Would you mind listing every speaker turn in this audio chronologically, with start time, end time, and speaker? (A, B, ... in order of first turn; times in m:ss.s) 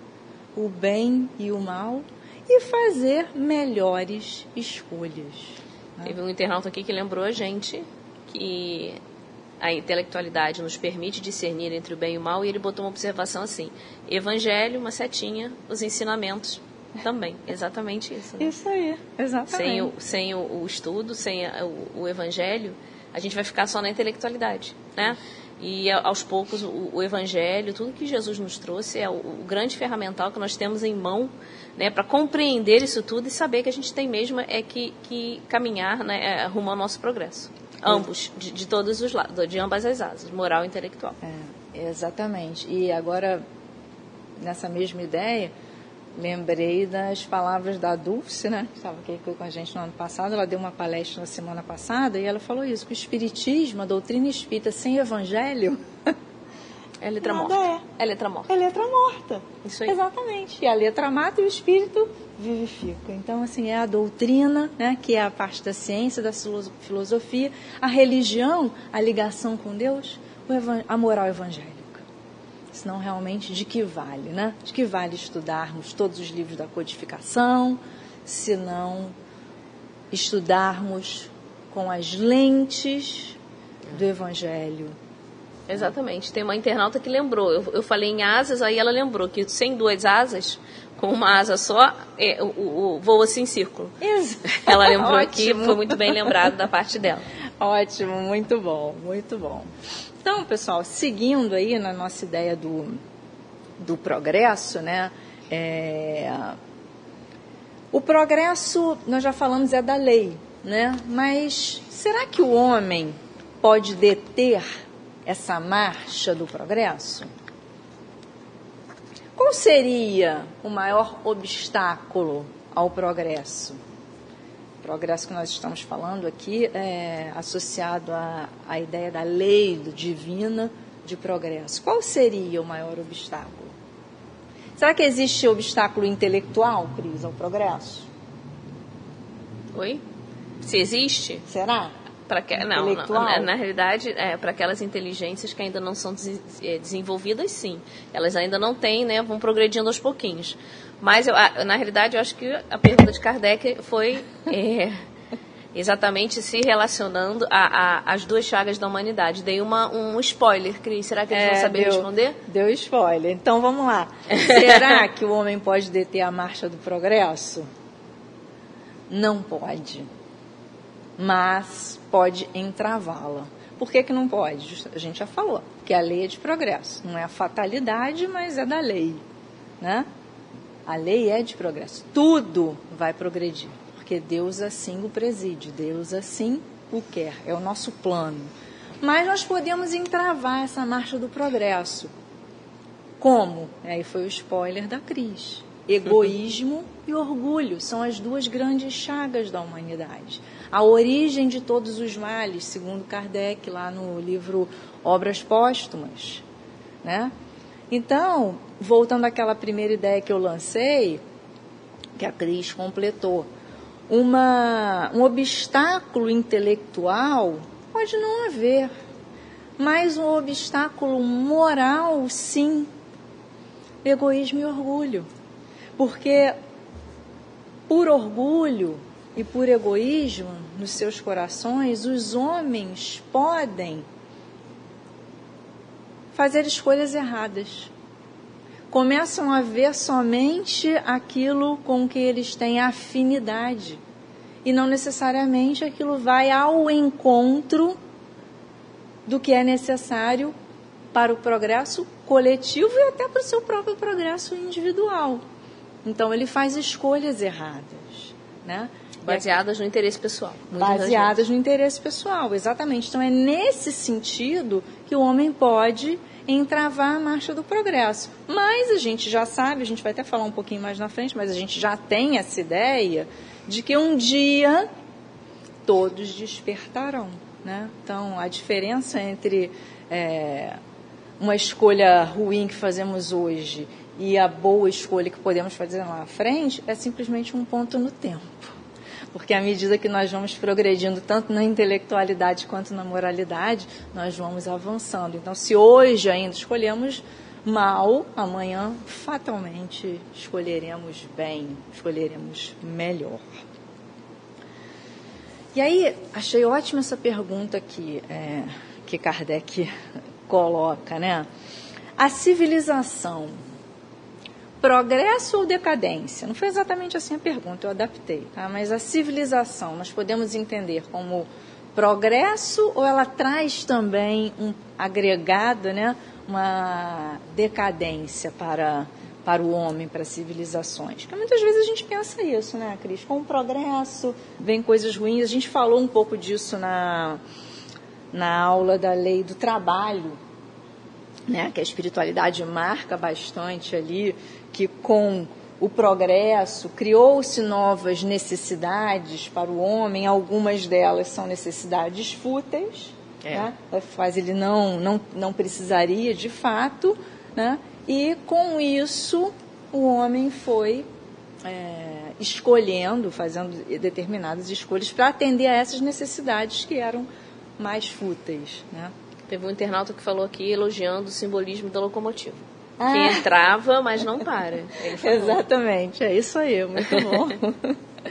0:00.6-0:06.1 A
0:06.0-0:09.0 B
0:09.6-0:18.5 B
0:18.4-0:19.9 A
0:19.5-0:41.2 B
0:41.2-0:43.4 A
0:44.4-0:45.5 A
0:46.2-0:56.1 A
0:57.0-0:58.5 B
0:57.2-0:57.9 A
0:58.5-1:12.0 A
0:59.6-1:00.0 B
1:12.7-1:19.1 A
1:20.1-1:23.4 A
1:23.9-1:25.0 A
1:25.7-1:34.0 B
1:34.0-1:36.3 A
1:34.6-1:37.3 B
1:37.6-1:39.7 A
1:40.2-1:43.0 A
1:43.8-1:46.6 A
1:47.9-1:54.7 A
1:55.3-1:57.3 A
1:59.4-2:03.8 A
2:04.8-2:13.7 A
2:14.8-2:18.1 A
2:19.7-2:20.0 B
2:20.6-2:21.4 B
2:21.5-2:21.9 A
2:22.3-2:35.0 B
2:22.6-2:23.5 A
2:35.7-2:42.4 B
2:41.3-2:47.7 A
2:44.4-2:45.0 B
2:49.1-2:50.1 A
2:51.2-2:59.2 A
2:59.8-3:00.1 A
3:00.9-3:08.5 A
3:09.0-3:12.1 A
3:13.2-3:26.4 A
3:27.0-3:27.3 A
3:27.9-3:31.2 A
3:32.2-3:33.5 A
3:34.1-3:38.9 A
3:39.8-3:42.9 A
3:44.0-3:45.3 A
3:46.0-3:46.6 A
3:47.9-3:54.0 A
3:56.3-3:57.9 A
3:58.9-4:04.0 A
4:04.6-4:08.0 A
4:09.3-4:10.5 A
4:11.1-4:15.4 A
4:16.0-4:19.4 A
4:19.2-4:21.4 B
4:20.8-4:34.9 A
4:35.9-4:40.8 A
4:41.4-4:48.8 A
4:49.3-5:03.5 A
5:05.7-5:09.9 A
5:10.5-5:11.5 A
5:12.2-5:13.6 A
5:14.8-5:37.4 A
5:38.3-5:40.4 A
5:41.5-6:01.1 A
5:53.4-5:53.7 B
6:01.6-6:07.3 A
6:07.8-6:09.1 A
6:09.5-6:15.6 B
6:13.0-6:13.5 A
6:15.2-6:18.0 A